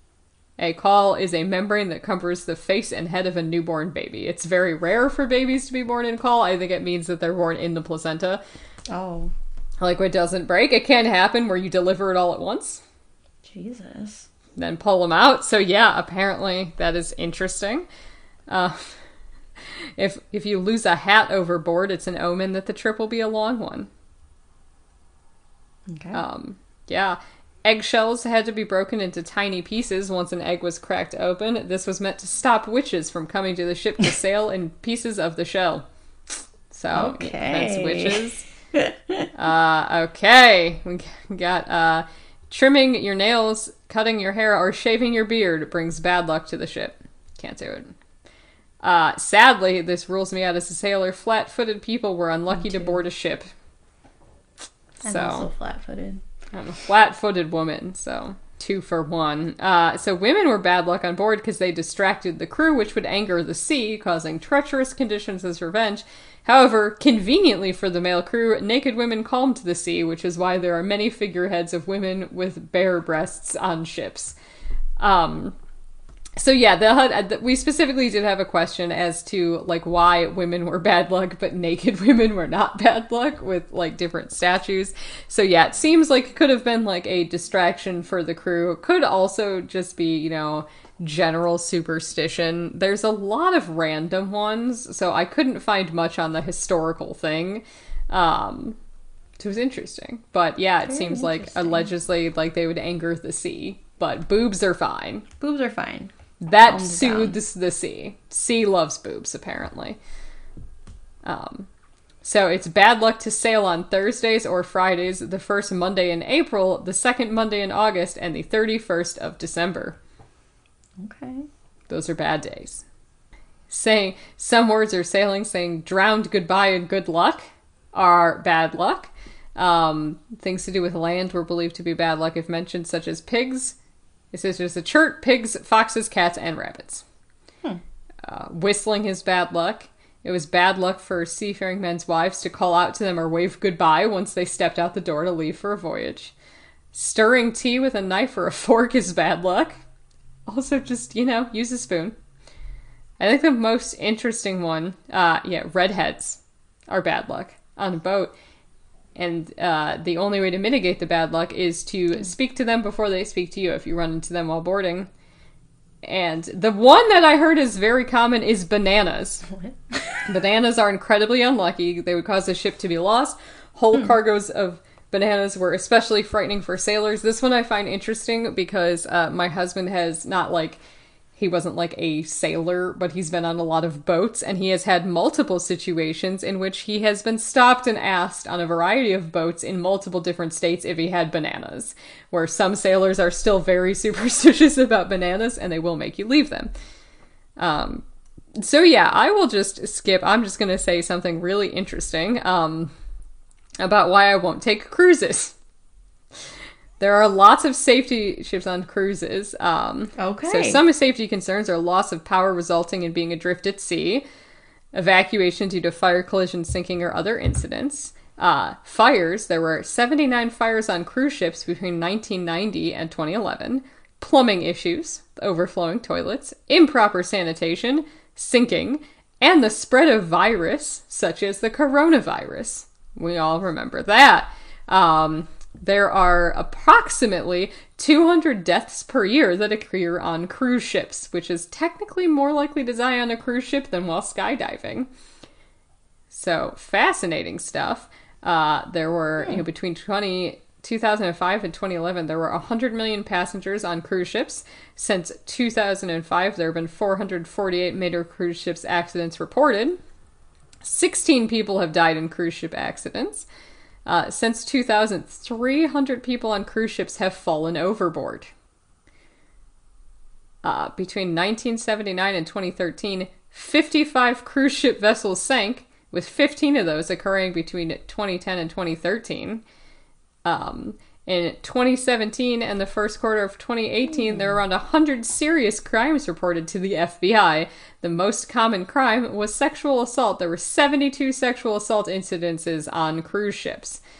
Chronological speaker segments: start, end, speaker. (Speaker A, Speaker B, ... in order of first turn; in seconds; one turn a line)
Speaker A: 0.6-8.4
Speaker B: 8.9-9.3
Speaker A: 9.8-12.8
Speaker B: 13.4-14.3
Speaker A: 14.6-17.9
Speaker A: 18.5-19.0
Speaker A: 19.6-23.9
Speaker B: 25.9-26.2
Speaker A: 26.1-35.8
Speaker A: 36.7-38.5
Speaker B: 36.9-39.3
Speaker A: 39.3-47.9
Speaker A: 48.8-53.5
Speaker B: 52.5-53.0
Speaker A: 55.0-55.5
Speaker B: 55.0-56.2
Speaker A: 56.5-74.3
Speaker A: 75.0-75.5
Speaker A: 76.4-98.8
Speaker A: 99.4-105.2
Speaker B: 100.8-101.9
Speaker B: 105.4-106.1
Speaker A: 106.4-110.0
Speaker B: 106.7-107.4
Speaker A: 111.2-111.7
Speaker A: 112.2-120.0
Speaker B: 121.0-121.5
Speaker A: 121.9-122.8
Speaker A: 123.7-133.8
Speaker A: 134.3-137.0
Speaker A: 138.2-146.3
Speaker A: 146.9-149.7
Speaker A: 150.5-152.1
Speaker A: 153.2-158.3
Speaker A: 159.2-165.1
Speaker A: 166.0-169.4
Speaker B: 169.5-170.2
Speaker A: 170.2-180.8
Speaker A: 181.3-196.7
Speaker A: 197.6-198.0
Speaker A: 198.6-202.9
Speaker A: 203.8-205.6
Speaker A: 207.0-214.2
Speaker B: 210.2-210.8
Speaker A: 214.9-245.1
Speaker A: 246.3-260.0
Speaker A: 260.8-263.5
Speaker A: 264.1-268.5
Speaker A: 270.6-279.6
Speaker A: 280.4-294.0
Speaker B: 284.1-284.6